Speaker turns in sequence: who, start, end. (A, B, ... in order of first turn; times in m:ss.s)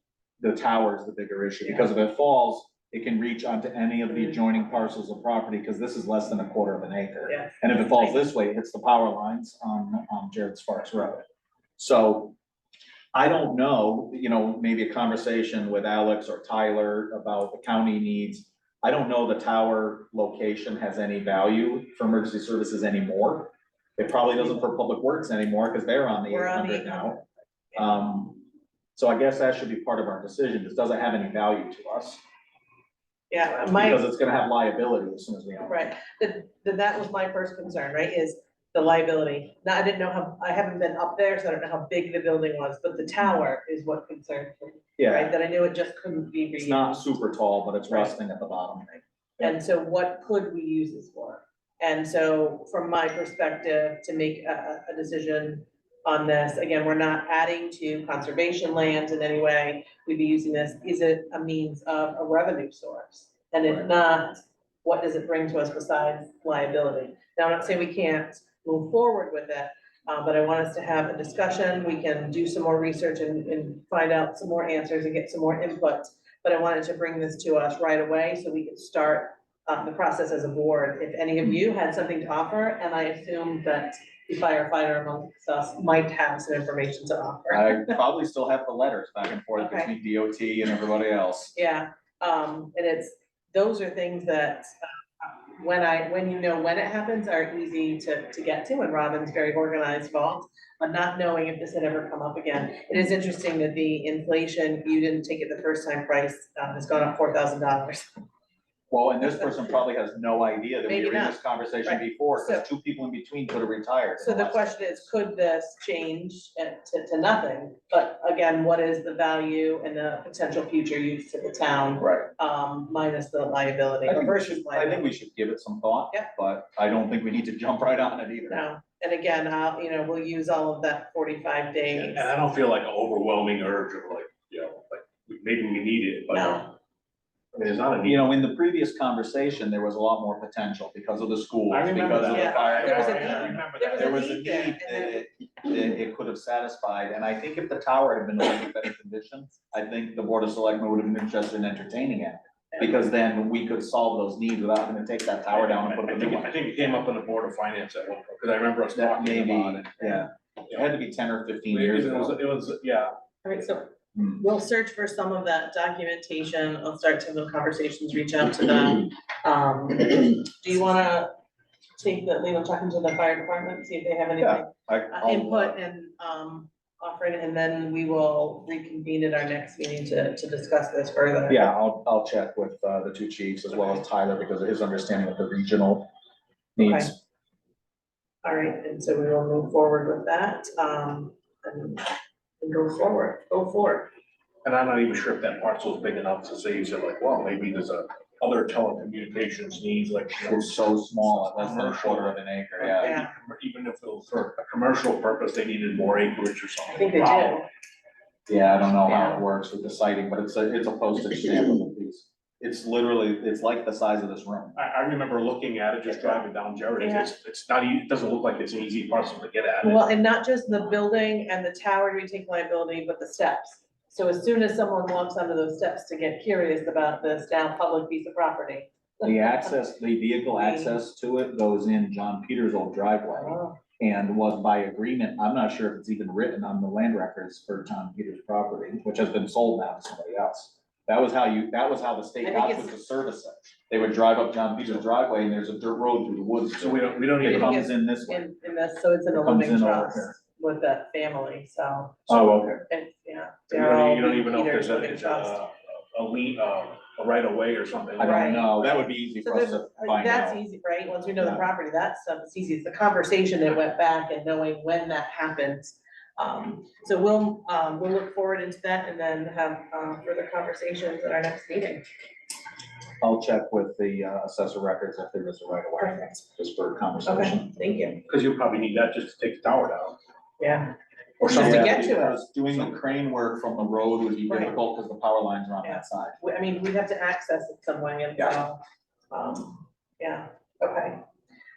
0:00.4-0:11.2 A
0:07.3-0:08.2 B
0:11.8-0:12.4 A
0:13.1-0:27.2 A
0:26.3-0:27.2 B
0:27.7-0:28.4 A
0:29.0-0:32.2 A
0:33.3-0:34.0 B
0:33.7-0:35.9 A
0:35.7-0:47.1 B
0:45.0-0:45.4 A
0:46.6-0:49.6 A
0:47.9-0:48.1 B
0:49.4-1:28.0 B
1:27.5-1:31.6 A
1:29.6-1:29.9 B
1:31.5-1:48.1 B
1:48.9-1:55.1 A
1:50.8-1:52.7 B
1:54.2-2:05.0 B
2:04.0-2:08.6 A
2:08.5-2:12.3 B
2:11.9-2:16.7 C
2:16.3-2:16.7 B
2:17.5-2:18.2 C
2:18.0-2:36.5 A
2:21.7-2:24.5 C
2:22.2-2:25.2 B
2:35.5-2:40.8 C
2:38.9-2:42.4 A
2:41.7-2:43.1 C
2:43.4-2:51.3 B
2:44.1-2:44.4 A
2:52.0-3:01.7 B
2:54.4-2:55.8 A
3:01.5-3:06.1 A
3:06.8-3:07.2 A
3:06.8-3:07.1 B
3:08.4-3:12.1 B
3:12.6-3:14.1 B
3:14.6-3:27.7 C
3:20.4-3:23.2 A
3:23.0-3:23.3 B
3:26.9-3:27.7 B
3:28.5-3:34.8 A
3:29.1-3:29.4 B
3:34.8-3:40.0 C
3:37.0-3:37.3 B
3:39.8-3:49.7 B
3:49.2-4:08.5 A
3:50.6-3:51.0 B
3:53.3-3:53.8 B
4:02.4-4:02.9 B
4:06.8-4:07.8 C
4:07.4-4:15.6 B
4:09.3-4:10.4 A
4:12.3-4:12.8 A
4:13.7-4:18.7 C
4:18.2-4:20.6 A
4:18.2-4:32.0 B
4:21.4-4:21.6 A
4:33.2-4:37.8 A
4:37.2-4:38.2 B
4:38.3-4:40.2 C
4:40.6-4:42.4 B
4:41.4-4:42.0 C
4:41.5-4:46.4 A
4:44.5-4:44.7 B
4:45.8-4:48.8 B
4:49.3-4:51.2 B